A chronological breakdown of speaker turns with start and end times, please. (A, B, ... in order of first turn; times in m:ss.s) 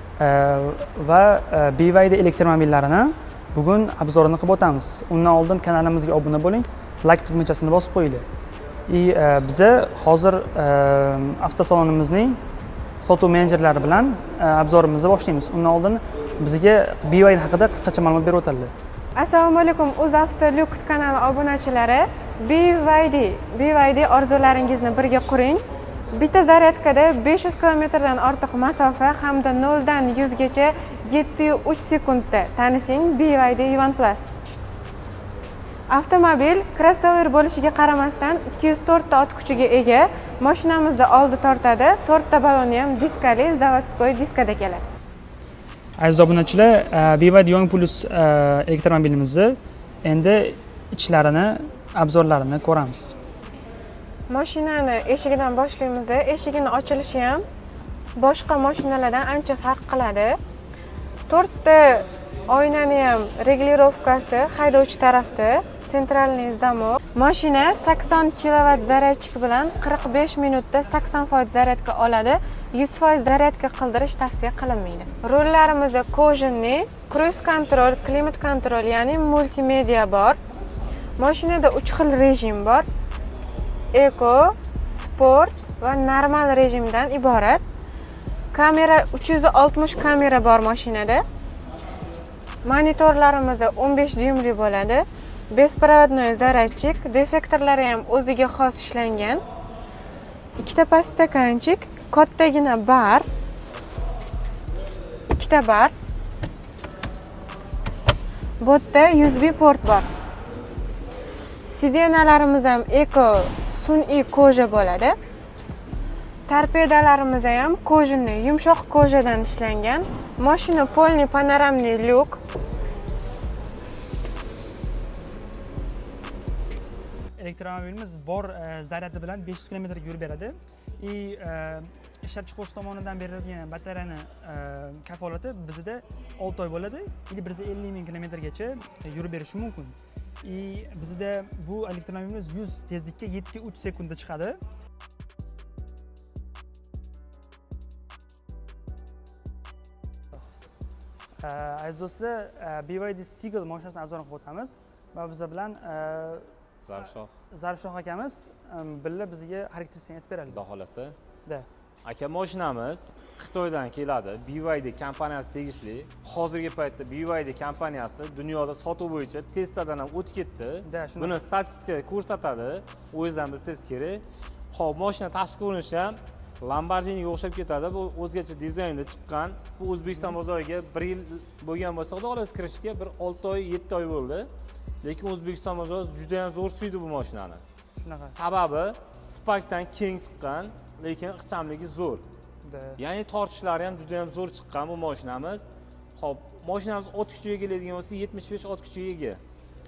0:00.2-0:08.2 A
0:08.9-0:12.4 A
0:13.0-0:18.7 A
0:19.2-0:34.3 B
0:35.9-0:44.8 B
0:46.0-0:53.2 A
0:54.3-0:57.4 B
0:58.2-1:00.4 B
1:01.3-1:20.4 B
1:21.2-1:22.9 B
1:23.9-1:27.6 B
1:28.5-1:31.2 B
1:32.6-1:39.4 B
1:40.6-1:43.2 B
1:45.3-1:45.9 B
1:48.6-1:50.1 B
1:51.6-1:55.2 B
1:56.5-2:02.4 B
2:07.4-2:24.6 A
2:31.4-2:36.5 A
2:36.8-2:37.3 C
2:37.0-2:40.6 A
2:40.5-2:41.2 C
2:42.0-3:04.5 C
2:50.8-2:51.4 A
3:05.0-3:07.6 C
3:08.0-3:08.3 A
3:08.3-3:12.2 C
3:12.6-3:13.0 A
3:13.0-3:19.4 C